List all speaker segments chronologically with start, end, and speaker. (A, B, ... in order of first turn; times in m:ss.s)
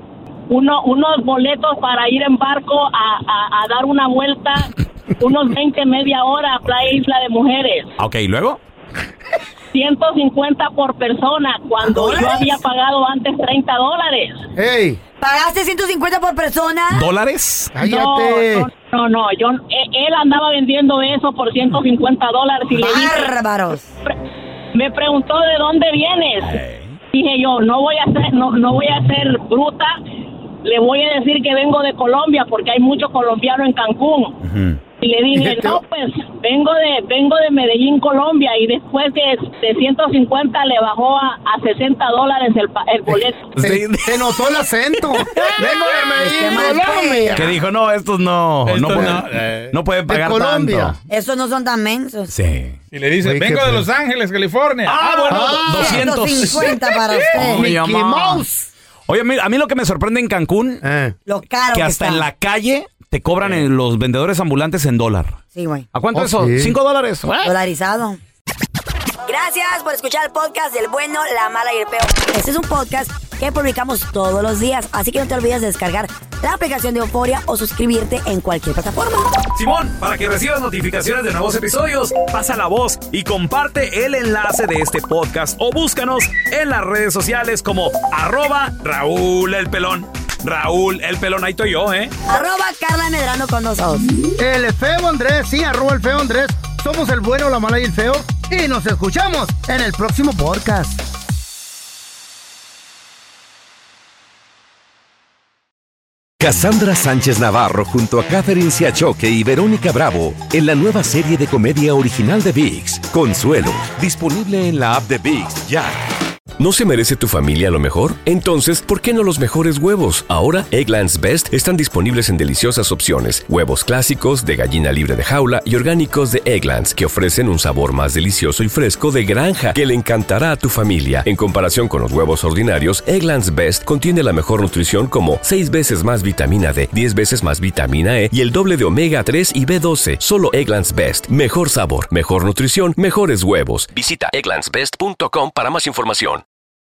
0:00.5-0:07.9 A
0:06.6-0:07.0 B
0:08.0-0:08.6 B
0:09.7-0:14.4 A
0:11.8-0:12.6 C
0:14.6-0:15.0 D
0:15.2-0:17.0 C
0:16.9-0:17.7 B
0:17.7-0:18.7 D
0:17.8-0:23.3 A
0:22.7-0:23.8 C
0:24.7-0:26.6 A
0:26.4-0:26.9 B
0:27.1-0:29.9 A
0:30.6-0:34.3 A
0:34.4-0:34.8 B
0:35.0-0:43.5 A
0:35.3-0:35.8 D
0:43.5-0:44.2 B
0:43.6-0:47.6 D
0:45.3-0:45.6 B
0:46.2-0:47.4 C
0:47.3-0:51.0 B
0:48.6-0:49.7 E
0:48.9-0:49.4 D
0:50.1-0:51.0 D
0:51.1-0:52.3 C
0:52.3-0:52.8 B
0:52.9-0:55.6 E
0:53.2-0:53.9 D
0:54.8-0:58.4 B
0:55.3-0:56.5 D
0:55.7-0:57.7 C
0:57.0-0:57.3 E
0:57.4-0:58.7 D
0:59.1-1:00.8 B
1:00.8-1:01.2 D
1:01.3-1:02.2 C
1:01.7-1:05.4 B
1:05.5-1:05.9 C
1:05.9-1:07.6 B
1:06.1-1:06.8 D
1:07.4-1:08.2 C
1:09.2-1:19.3 C
1:19.5-1:32.1 B
1:32.3-1:34.1 C
1:34.4-1:41.0 D
1:46.4-1:56.0 F
1:56.6-2:26.4 G